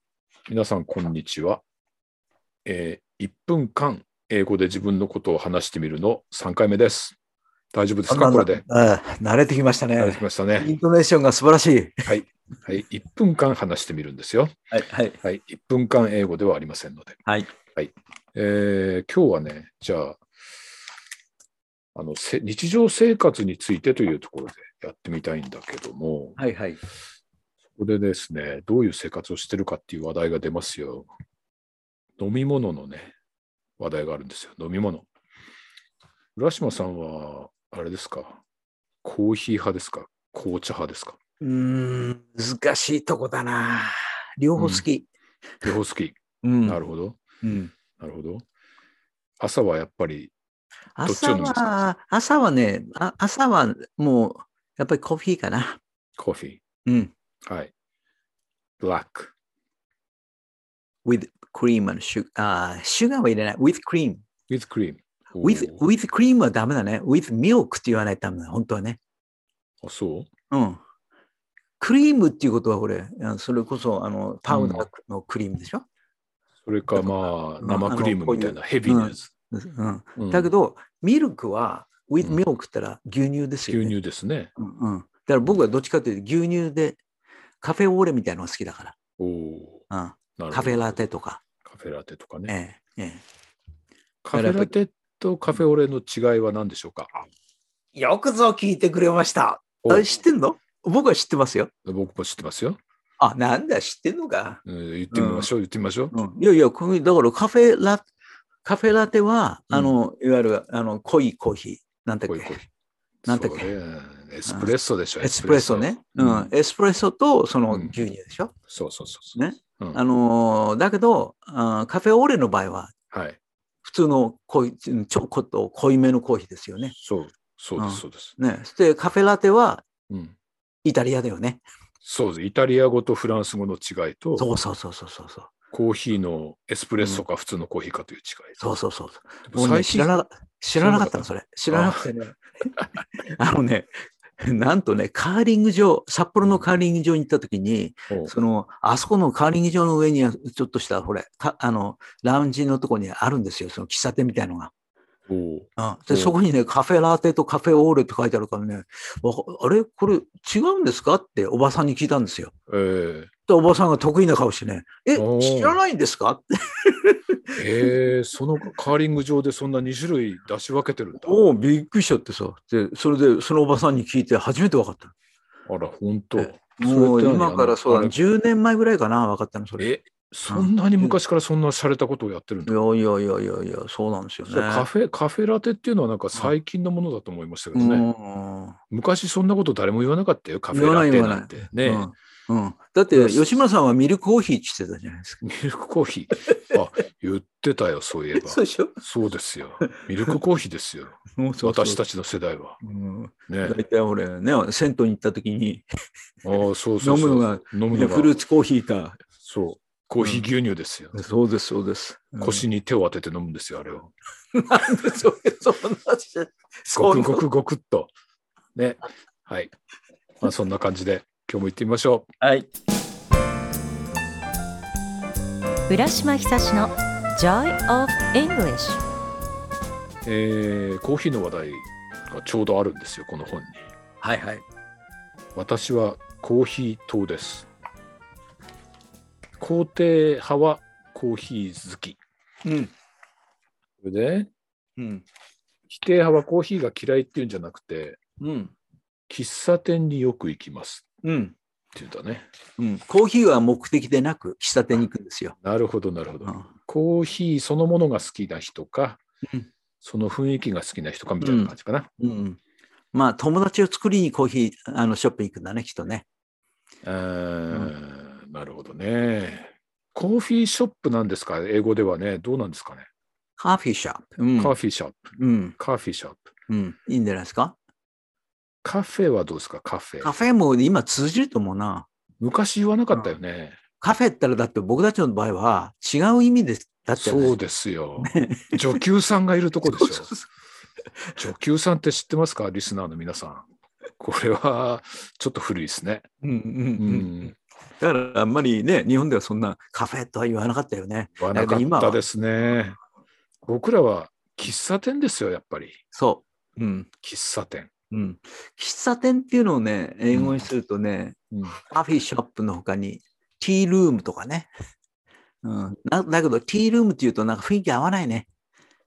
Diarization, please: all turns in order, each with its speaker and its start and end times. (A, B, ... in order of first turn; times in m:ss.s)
0:00.5-0:01.6 A
0:02.6-0:07.2 A
0:07.7-0:08.6 A
0:08.1-0:12.1 B
0:10.0-0:10.7 A
0:12.0-0:14.6 A
0:14.7-0:15.2 B
0:15.2-0:17.2 A
0:17.2-0:17.5 B
0:17.7-0:20.2 A
0:21.9-0:26.4 A
0:26.4-0:26.8 B
0:27.8-0:31.1 A
0:32.2-0:33.1 A
0:33.8-0:35.0 A
0:36.4-0:38.4 A
0:39.0-0:41.2 A
0:41.4-0:45.0 B
0:44.6-0:44.8 A
0:45.6-0:47.2 A
0:46.4-0:46.8 B
0:47.4-0:47.7 B
0:48.0-0:48.4 A
0:49.4-0:50.3 A
0:51.0-0:55.8 B
0:51.0-0:51.8 A
0:56.2-0:56.6 A
0:56.8-0:57.1 B
0:57.4-0:57.7 A
0:58.8-0:59.3 A
1:01.0-1:04.2 B
1:04.5-1:05.8 A
1:05.4-1:09.0 B
1:09.8-1:10.3 A
1:10.5-1:10.8 B
1:11.8-1:15.8 B
1:14.5-1:14.8 A
1:16.6-1:19.3 A
1:17.6-1:23.9 B
1:20.2-1:20.5 A
1:23.7-1:24.5 A
1:24.6-1:27.0 B
1:27.6-1:29.0 B
1:29.2-1:29.8 A
1:29.9-1:31.4 B
1:30.4-1:31.0 A
1:31.6-1:32.5 A
1:32.5-1:33.2 B
1:34.2-1:37.2 A
1:34.3-1:34.7 B
1:37.9-1:41.7 B
1:39.8-1:40.1 A
1:41.8-1:42.8 A
1:43.2-1:45.5 B
1:44.6-1:46.2 A
1:46.1-1:48.0 B
1:48.6-1:52.6 B
1:49.7-1:50.0 A
1:52.2-1:52.6 A
1:53.2-1:56.5 A
1:53.3-1:53.7 B
1:54.4-1:58.5 B
1:57.7-1:58.0 A
1:58.7-2:00.0 A
1:59.4-2:02.9 B
2:03.1-2:03.4 A
2:03.8-2:06.9 B
2:06.9-2:08.4 A
2:07.8-2:09.8 B
2:10.1-2:10.3 A
2:10.8-2:11.6 B
2:12.0-2:14.5 A
2:14.4-2:15.5 B
2:15.7-2:18.6 A
2:18.6-2:34.7 B
2:19.5-2:20.1 A
2:20.8-2:22.1 A
2:35.3-2:36.3 A
2:35.8-2:42.5 B
2:42.7-2:43.3 A
2:43.5-2:47.9 B
2:45.1-2:45.8 A
2:47.5-2:51.4 A
2:51.2-2:55.1 B
2:55.6-2:58.2 A
2:56.4-2:59.9 B
2:59.8-3:02.8 A
3:00.5-3:01.2 B
3:02.7-3:04.9 B
3:04.4-3:08.0 A
3:07.7-3:08.8 B
3:08.9-3:12.1 A
3:10.7-3:15.4 B
3:13.1-3:13.4 A
3:15.4-3:22.8 A
3:18.4-3:19.0 B
3:21.3-3:22.0 B
3:22.8-3:25.8 B
3:23.5-3:23.8 A
3:26.4-3:28.3 A
3:27.0-3:29.2 B
3:29.4-3:31.2 A
3:30.2-3:30.4 B
3:31.1-3:32.6 B
3:32.4-3:34.1 A
3:34.5-3:37.4 B
3:36.9-3:38.1 A
3:38.7-3:39.7 A
3:40.4-3:42.3 A
3:42.4-3:42.7 B
3:45.9-3:49.0 C
3:50.2-3:53.9 A
3:54.2-3:54.6 B
3:55.5-3:57.7 A
3:59.6-4:02.2 A
4:02.6-4:02.9 B
4:04.0-4:04.5 A
4:05.0-4:05.2 B
4:05.9-4:08.2 A
4:08.4-4:08.7 B
4:09.3-4:11.0 A
4:11.2-4:11.5 B
4:11.9-4:12.5 A
4:12.8-4:15.5 B
4:15.6-4:19.2 A
4:20.0-4:22.1 A
4:21.4-4:22.6 B
4:23.1-4:26.2 B
4:27.0-4:33.1 A
4:33.6-4:34.7 B
4:34.6-4:36.5 A
4:35.4-4:35.8 B
4:36.7-4:37.7 B
4:38.8-4:40.3 A
4:40.2-4:42.1 B
4:42.4-4:43.8 A
4:44.0-4:47.6 B
4:47.2-4:50.3 A
4:48.2-4:49.0 B
4:49.8-4:50.4 B
4:51.4-4:53.7 A
4:54.2-4:56.3 A
4:56.4-5:02.2 B
4:57.0-4:57.5 A
5:01.4-5:03.0 A
5:03.6-5:06.0 A
5:06.1-5:07.1 B
5:07.2-5:07.9 A
5:08.1-5:14.7 B
5:10.3-5:10.6 A
5:11.5-5:11.8 A
5:15.6-5:18.5 B